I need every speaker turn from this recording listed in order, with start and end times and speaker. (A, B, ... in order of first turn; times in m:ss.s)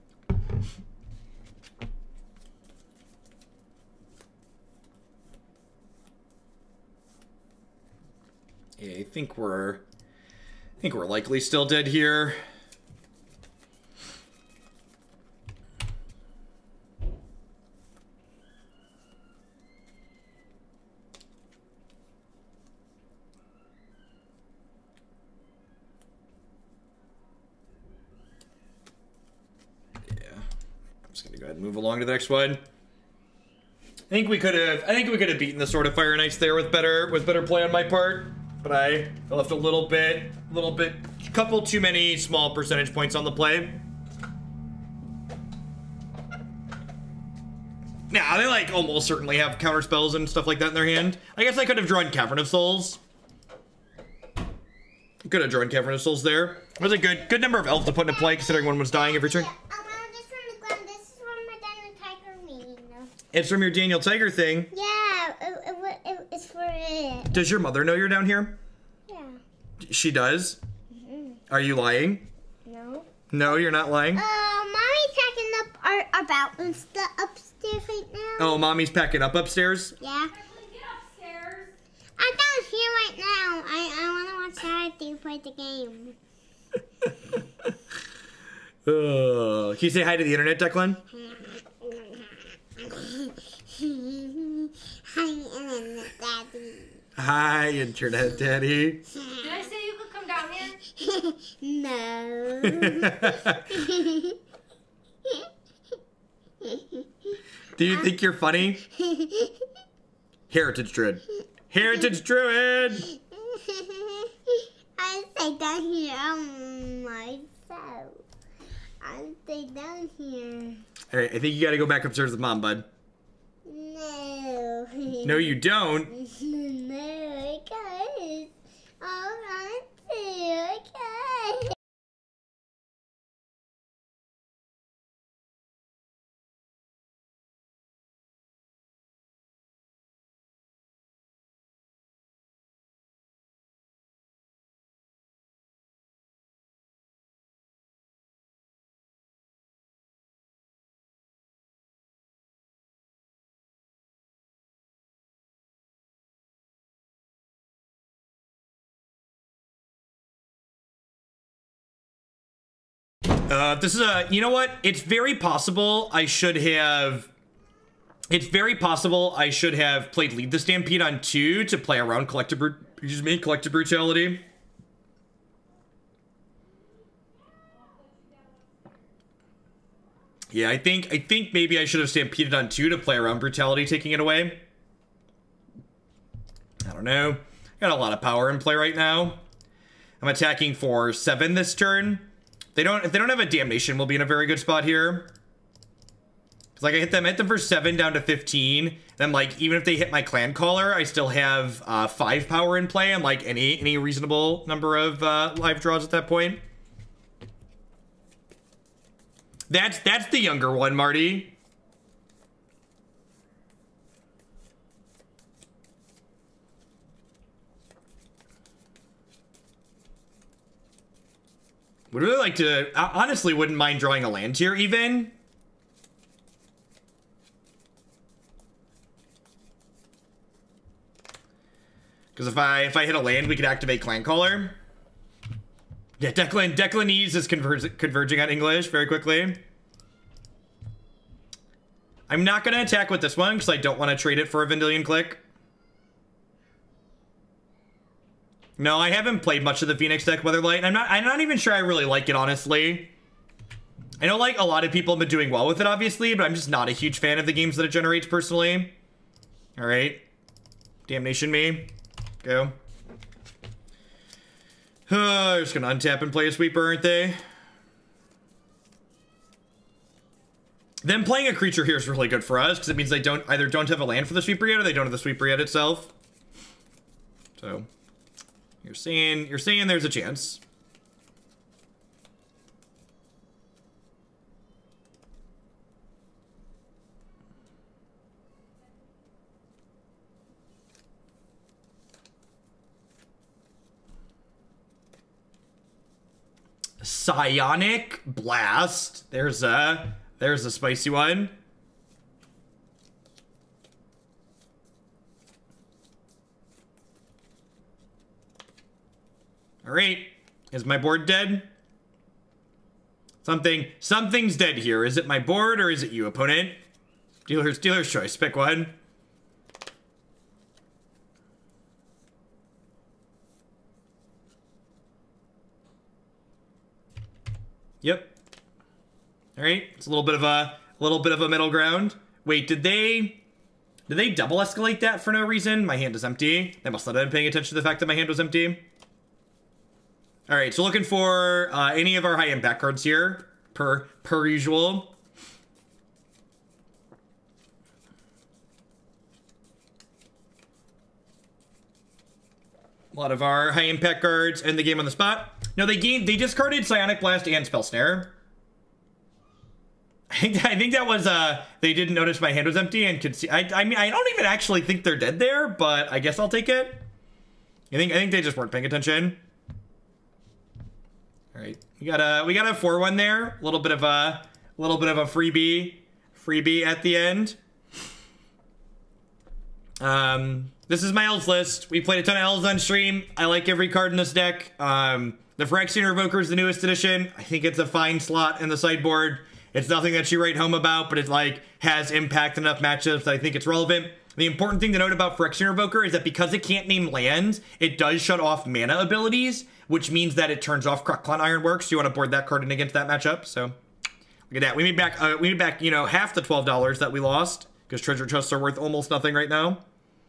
0:08.8-0:09.8 A
0:10.8-0:12.4 A
0:30.1-0:30.4 A
0:31.1-0:32.6 A
0:34.1-0:43.8 A
0:48.1-0:53.0 A
0:55.2-0:59.5 A
0:56.8-1:03.1 B
1:03.3-1:04.7 A
1:04.7-1:07.4 B
1:07.3-1:08.6 A
1:09.1-1:09.4 B
1:09.8-1:10.6 A
1:10.9-1:11.4 B
1:11.5-1:12.3 A
1:12.6-1:13.1 B
1:13.3-1:14.2 A
1:14.1-1:18.6 B
1:18.4-1:19.9 A
1:20.0-1:20.3 B
1:20.3-1:21.7 C
1:22.2-1:26.2 B
1:28.8-1:31.0 A
1:31.2-1:37.0 B
1:37.2-1:39.1 A
1:39.1-1:39.6 B
1:39.3-1:40.8 C
1:41.0-1:44.4 B
1:42.6-1:43.8 A
1:46.6-1:47.3 B
1:47.8-1:48.8 A
1:48.8-1:49.6 B
1:50.5-1:53.1 A
1:53.1-1:58.2 B
1:59.0-2:00.8 B
2:01.1-2:02.9 A
2:03.6-2:05.6 B
2:05.2-2:06.1 A
2:06.1-2:11.8 B
2:43.4-2:47.3 A
2:48.3-2:54.4 A
2:57.9-2:58.5 C
3:00.5-3:04.6 A
3:06.8-3:09.4 A
3:10.2-3:15.3 A
3:16.8-3:26.6 A
3:29.7-3:31.6 A
3:42.1-3:45.4 A
3:52.4-3:54.8 A
3:56.2-3:59.6 A
4:02.3-4:05.4 A
4:08.8-4:13.1 A
4:14.2-4:18.9 A
4:19.8-4:20.2 A
4:21.1-4:22.7 A
4:25.1-4:27.4 A
4:31.0-4:36.1 A
4:37.6-4:37.9 A
4:38.8-4:40.6 A
4:57.0-5:01.6 A
5:09.8-5:11.7 A
5:13.4-5:16.8 A
5:17.4-5:18.9 A
5:28.0-5:28.4 A
5:29.6-5:33.4 A
5:34.1-5:38.8 A
5:40.5-5:45.2 A
5:53.1-5:58.4 A
6:00.3-6:07.0 A
6:07.9-6:09.4 A
6:11.5-6:17.6 A
6:20.0-6:43.8 A
6:44.5-6:49.8 A